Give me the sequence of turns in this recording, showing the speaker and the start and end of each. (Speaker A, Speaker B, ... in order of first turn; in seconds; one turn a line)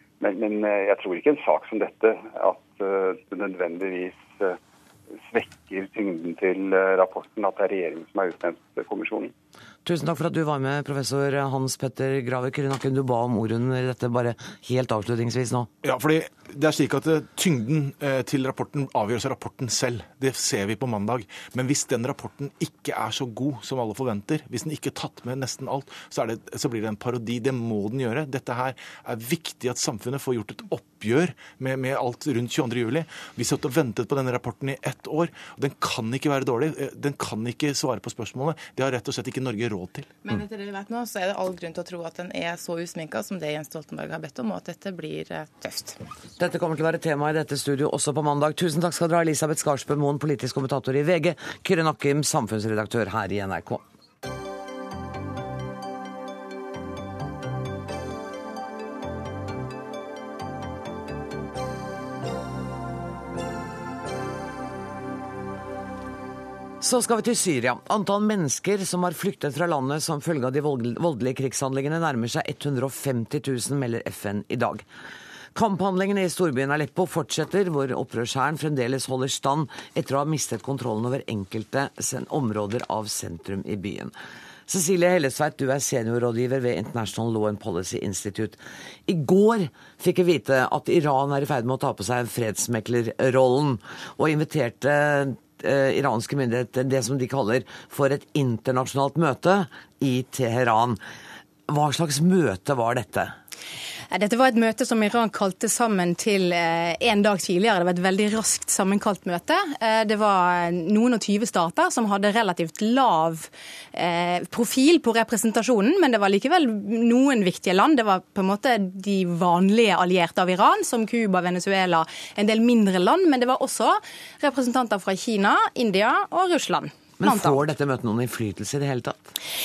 Speaker A: 0.2-4.6
Speaker A: 5.2-9.3
Speaker B: 9.8-15.7
Speaker C: 15.8-40.1
Speaker D: 40.2-46.0
Speaker B: 46.4-53.8
Speaker B: 66.8-74.8
Speaker B: 75.5-84.1
Speaker B: 84.7-101.0
Speaker B: 101.7-103.3
Speaker E: 104.1-127.6
Speaker B: 127.2-129.3